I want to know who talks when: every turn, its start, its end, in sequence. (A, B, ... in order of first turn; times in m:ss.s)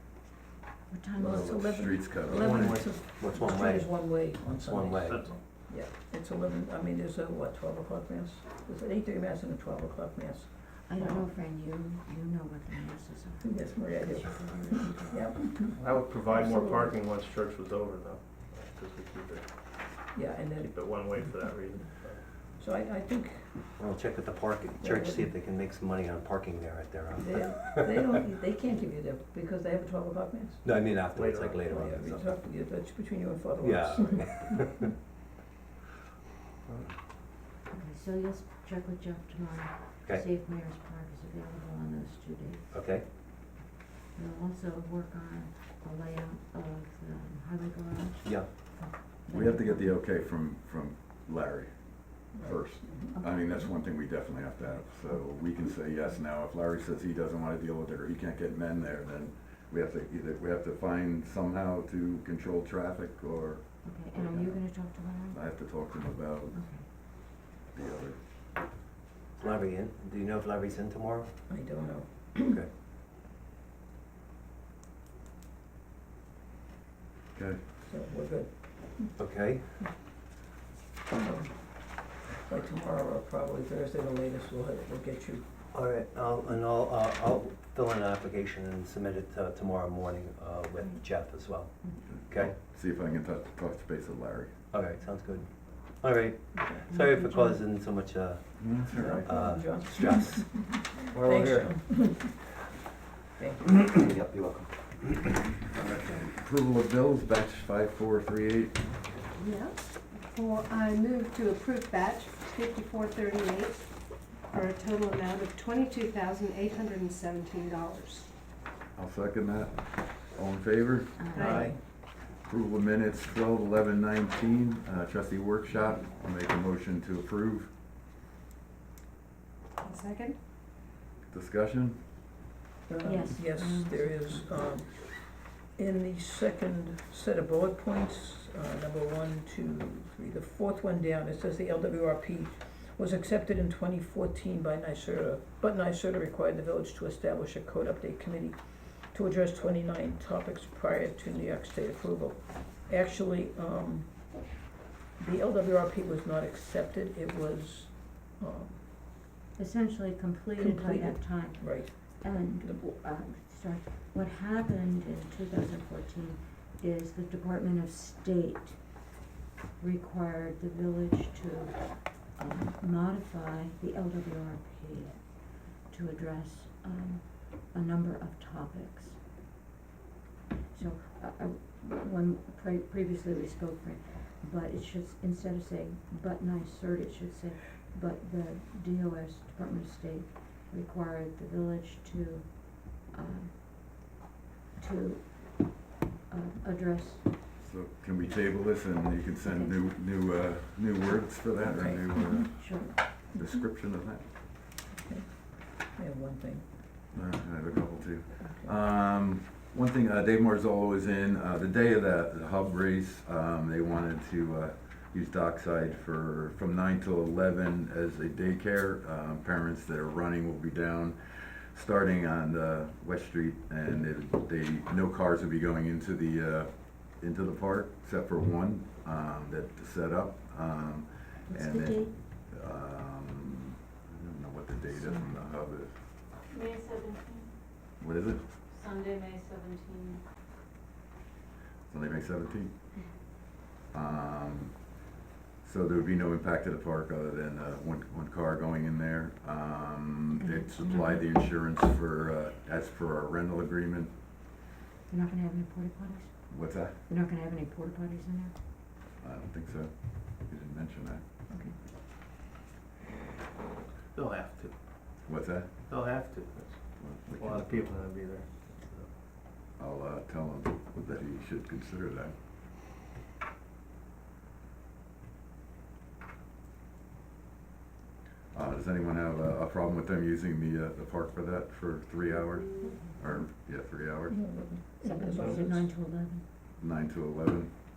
0:00.9-0:01.6 A
0:01.2-0:11.3 B
0:01.7-0:02.9 C
0:02.3-0:05.3 D
0:05.1-0:05.4 E
0:10.8-0:15.6 A
0:13.4-0:16.9 B
0:15.7-0:22.3 E
0:20.1-0:23.5 B
0:23.8-0:28.0 D
0:24.8-0:25.3 B
0:27.2-0:30.7 B
0:30.6-0:32.4 D
0:31.0-0:31.7 E
0:31.6-0:34.6 B
0:33.6-0:34.7 D
0:36.7-0:36.9 E
0:37.7-0:43.2 A
0:42.7-0:43.0 D
0:44.1-0:50.0 A
0:48.2-0:48.5 D
0:49.3-1:08.2 C
0:52.3-0:53.2 B
0:53.1-0:53.8 A
1:03.8-1:05.4 A
1:06.5-1:06.9 A
1:09.4-1:11.4 D
1:11.5-1:12.6 B
1:12.4-1:12.7 D
1:17.3-1:17.6 C
1:17.8-1:19.9 B
1:19.2-1:19.8 D
1:21.1-1:25.4 B
1:25.7-1:32.6 D
1:32.0-1:34.5 C
1:34.7-1:40.7 D
1:36.6-1:36.9 B
1:36.9-1:37.6 A
1:38.6-1:39.3 C
1:38.9-1:42.4 B
1:41.1-1:41.6 E
1:43.4-1:43.7 B
1:43.6-1:45.4 D
1:45.8-1:46.2 E
1:46.1-1:48.9 C
1:49.4-1:58.3 F
1:58.9-2:07.7 C
2:01.2-2:01.6 A
2:01.3-2:01.7 F
2:01.4-2:01.8 B
2:01.4-2:01.8 D
2:05.7-2:06.2 A
2:09.8-2:10.4 F
2:11.3-2:12.1 C
2:12.9-2:34.4 B
2:13.0-2:14.7 A
2:35.2-2:38.8 B
2:39.6-2:49.0 A
2:40.6-2:42.8 B
2:49.8-2:59.2 A
3:00.7-3:13.9 A
3:14.8-3:17.3 A
3:17.6-3:24.3 C
3:19.4-3:19.8 A
3:21.7-3:22.5 B
3:21.7-3:23.0 A
3:23.3-3:23.6 B
3:24.9-3:26.7 B
3:27.1-3:56.0 C
3:51.5-3:52.2 A
3:54.9-3:55.5 A
3:56.5-3:57.5 G
3:58.0-3:58.6 C
3:58.7-4:00.2 G
4:01.9-4:02.8 C
4:03.9-4:04.9 C
4:05.6-4:14.2 C
4:10.3-4:11.6 A
4:15.1-4:18.6 A
4:16.5-4:17.0 C
4:19.2-4:21.3 C
4:21.5-4:21.8 A
4:24.1-4:24.8 E
4:25.2-4:25.7 C
4:25.9-4:29.1 E
4:27.0-4:28.0 C
4:29.8-4:32.3 C
4:38.5-4:44.4 C
4:44.3-4:45.9 B
4:45.0-4:46.4 A
4:46.8-4:47.7 C